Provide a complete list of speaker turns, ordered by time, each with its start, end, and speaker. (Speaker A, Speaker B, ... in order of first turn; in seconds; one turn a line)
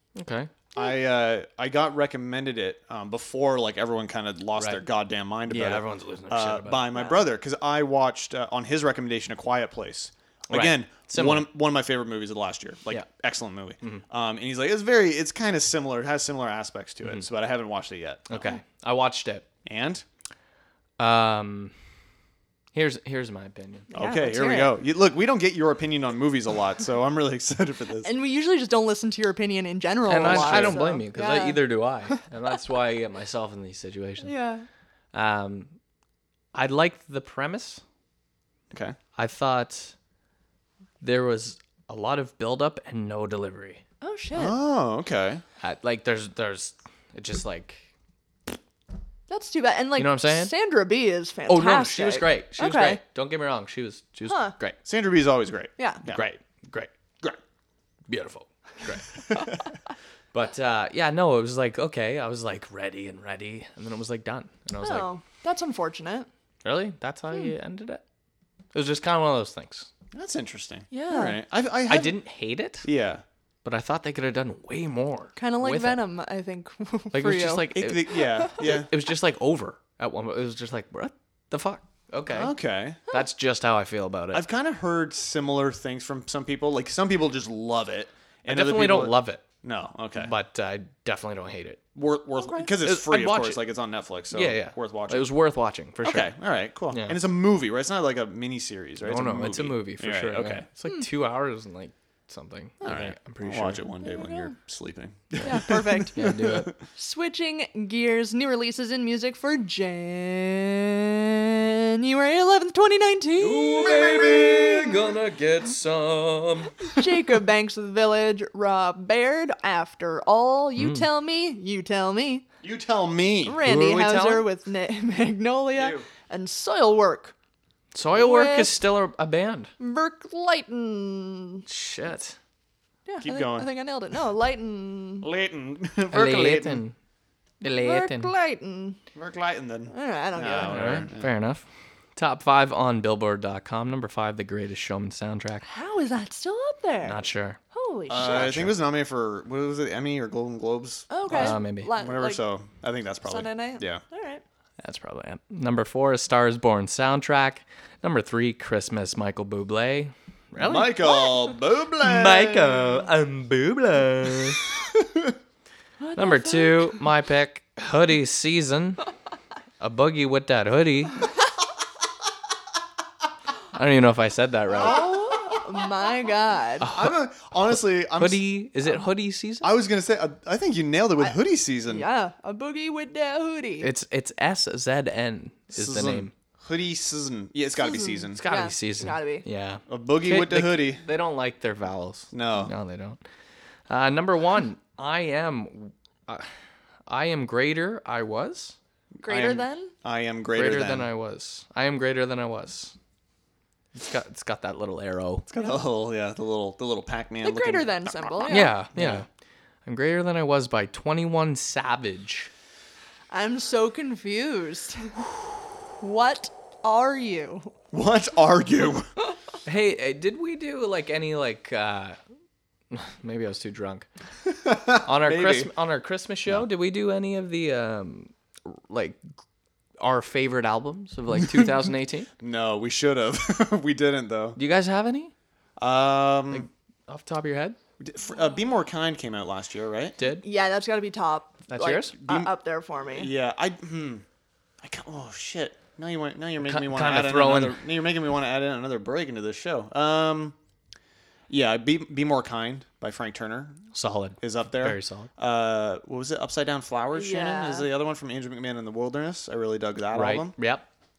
Speaker A: 0.2-0.5
Speaker B: 0.8-18.4
Speaker A: 4.6-4.8
Speaker A: 5.5-6.8
Speaker C: 7.0-7.2
Speaker A: 10.5-11.5
Speaker A: 18.3-19.5
Speaker B: 19.6-20.0
Speaker A: 21.0-21.7
Speaker A: 22.7-23.9
Speaker C: 23.9-24.8
Speaker B: 23.9-28.1
Speaker C: 28.0-32.2
Speaker A: 30.1-34.4
Speaker B: 30.2-30.8
Speaker C: 34.2-34.7
Speaker A: 35.1-35.7
Speaker A: 36.5-37.8
Speaker B: 38.7-39.0
Speaker A: 39.2-40.0
Speaker A: 41.0-43.8
Speaker C: 44.0-44.6
Speaker B: 44.3-45.4
Speaker A: 45.6-47.9
Speaker C: 49.3-53.0
Speaker A: 50.0-50.5
Speaker A: 51.5-54.8
Speaker C: 54.3-54.5
Speaker B: 54.9-56.2
Speaker A: 56.1-56.9
Speaker A: 58.1-59.5
Speaker A: 60.3-65.1
Speaker C: 64.8-66.3
Speaker A: 66.6-68.0
Speaker A: 68.7-69.9
Speaker B: 70.1-72.2
Speaker C: 70.9-71.4
Speaker A: 71.9-72.9
Speaker B: 72.8-73.2
Speaker A: 73.7-76.0
Speaker C: 75.4-77.7
Speaker A: 77.1-82.5
Speaker B: 77.7-78.9
Speaker B: 82.3-83.0
Speaker A: 83.1-84.4
Speaker B: 84.3-90.3
Speaker A: 88.5-89.5
Speaker A: 90.2-91.8
Speaker B: 92.0-95.3
Speaker C: 92.4-92.7
Speaker A: 92.8-93.7
Speaker A: 94.3-96.3
Speaker B: 96.0-100.7
Speaker A: 96.9-97.2
Speaker A: 99.0-103.8
Speaker B: 102.8-106.7
Speaker C: 104.0-104.5
Speaker C: 105.4-106.3
Speaker A: 106.1-106.8
Speaker C: 106.9-113.8
Speaker A: 113.4-116.9
Speaker B: 113.7-115.1
Speaker C: 117.0-122.5
Speaker A: 120.8-121.1
Speaker B: 122.6-123.6
Speaker C: 123.5-127.3
Speaker A: 123.6-124.5
Speaker B: 125.8-126.1
Speaker A: 127.9-129.7
Speaker C: 128.1-128.8
Speaker C: 129.8-131.7
Speaker A: 131.7-132.4
Speaker C: 133.1-135.3
Speaker B: 133.2-133.7
Speaker B: 135.2-136.8
Speaker A: 136.1-136.9
Speaker A: 137.6-138.3
Speaker C: 137.6-139.0
Speaker B: 139.2-141.3
Speaker C: 139.9-140.9
Speaker A: 140.7-145.7
Speaker C: 145.6-148.7
Speaker A: 147.1-147.6
Speaker B: 148.1-154.0
Speaker A: 148.2-148.7
Speaker C: 151.1-152.4
Speaker A: 151.3-151.9
Speaker C: 153.2-154.4
Speaker A: 154.8-161.3
Speaker B: 160.6-163.1
Speaker A: 162.0-164.6
Speaker B: 164.9-165.3
Speaker C: 166.0-167.0
Speaker A: 166.2-169.0
Speaker A: 169.8-171.3
Speaker A: 173.7-175.1
Speaker C: 174.8-176.9
Speaker B: 174.8-175.6
Speaker A: 176.8-177.2
Speaker B: 176.9-178.4
Speaker A: 177.7-179.7
Speaker B: 179.6-182.1
Speaker C: 181.2-183.9
Speaker A: 183.8-186.3
Speaker B: 185.7-188.4
Speaker C: 187.8-189.5
Speaker A: 188.4-193.2
Speaker B: 189.9-191.0
Speaker B: 192.3-192.7
Speaker A: 193.9-196.5
Speaker A: 197.1-198.8
Speaker B: 199.2-201.1
Speaker C: 199.2-199.9
Speaker A: 200.5-202.9
Speaker A: 203.9-205.4
Speaker B: 205.5-209.2
Speaker C: 207.4-208.8
Speaker A: 208.5-209.3
Speaker A: 209.9-212.5
Speaker C: 213.3-215.2
Speaker C: 216.0-217.7
Speaker B: 217.9-219.1
Speaker A: 219.7-222.2
Speaker A: 222.9-224.1
Speaker B: 224.5-225.7
Speaker A: 225.1-229.4
Speaker A: 230.0-232.3
Speaker B: 232.4-234.6
Speaker A: 234.6-235.3
Speaker B: 235.8-236.7
Speaker A: 236.5-237.8
Speaker B: 238.0-240.2
Speaker A: 240.2-240.5
Speaker C: 240.4-243.3
Speaker A: 241.7-242.1
Speaker B: 242.2-242.5
Speaker B: 243.1-244.2
Speaker B: 244.8-250.6
Speaker A: 246.6-247.8
Speaker B: 251.5-253.8
Speaker A: 253.9-255.3
Speaker B: 254.4-260.6
Speaker C: 257.1-257.9
Speaker A: 260.1-260.9